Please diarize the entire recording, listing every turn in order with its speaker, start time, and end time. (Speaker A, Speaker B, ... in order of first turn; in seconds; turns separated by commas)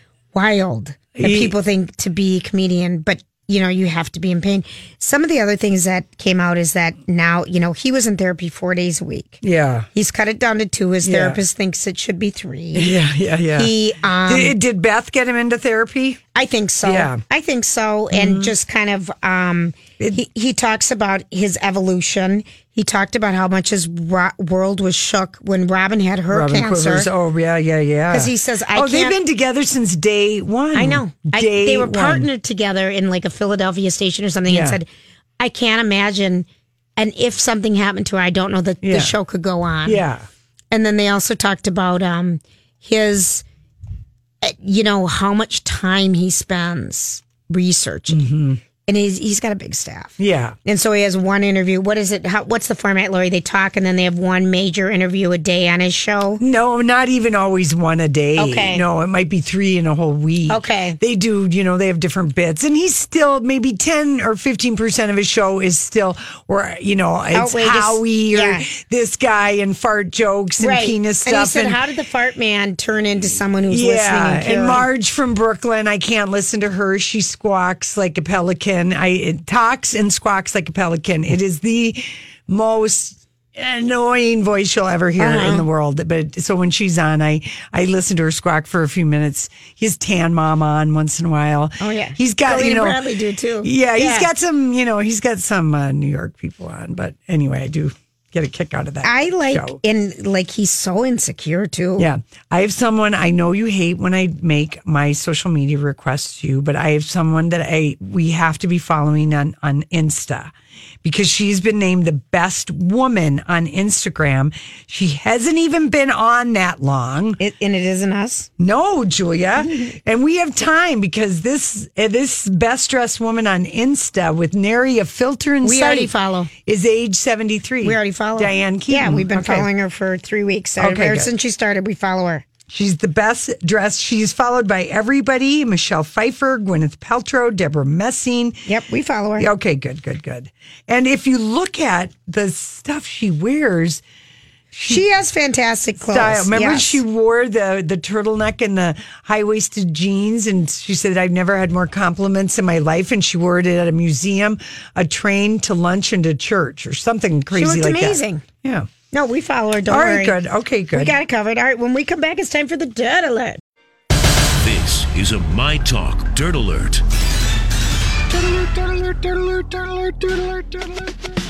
Speaker A: 0.3-9.4, Speaker B: 1.2-1.5, Speaker B: 9.4-9.9, Speaker A: 9.9-12.9, Speaker B: 11.0-11.4, Speaker B: 12.7-13.7, Speaker A: 13.5-14.6, Speaker B: 14.3-16.2, Speaker A: 16.4-27.1, Speaker B: 16.8-17.2, Speaker B: 18.1-18.5, Speaker B: 26.3-32.3, Speaker A: 28.1-29.2, Speaker A: 30.8-34.9, Speaker B: 34.5-34.8, Speaker A: 35.4-40.0, Speaker B: 38.8-39.1, Speaker B: 39.9-40.3, Speaker A: 40.7-43.4, Speaker A: 44.4-48.2, Speaker B: 48.1-48.6, Speaker A: 48.9-56.4, Speaker B: 50.2-50.6, Speaker B: 56.4-71.8, Speaker A: 58.4-58.8, Speaker A: 60.5-61.0, Speaker A: 67.3-68.7, Speaker A: 70.6-74.8, Speaker B: 73.7-93.0, Speaker A: 85.2-85.7, Speaker A: 91.8-94.3, Speaker B: 93.6-99.8, Speaker A: 99.0-102.1, Speaker B: 102.0-110.5, Speaker B: 111.0-117.4, Speaker A: 117.4-118.5, Speaker B: 118.6-126.1, Speaker A: 125.6-126.5, Speaker B: 126.7-129.7, Speaker A: 127.8-132.4, Speaker B: 130.8-131.3, Speaker B: 132.7-138.7, Speaker A: 138.7-139.5, Speaker B: 139.4-144.0, Speaker B: 144.7-145.0, Speaker A: 144.9-147.0, Speaker B: 146.0-158.9, Speaker A: 157.5-158.4, Speaker A: 159.1-160.4, Speaker B: 159.9-161.2, Speaker A: 160.9-163.6, Speaker C: 164.6-167.0, Speaker B: 168.3-171.1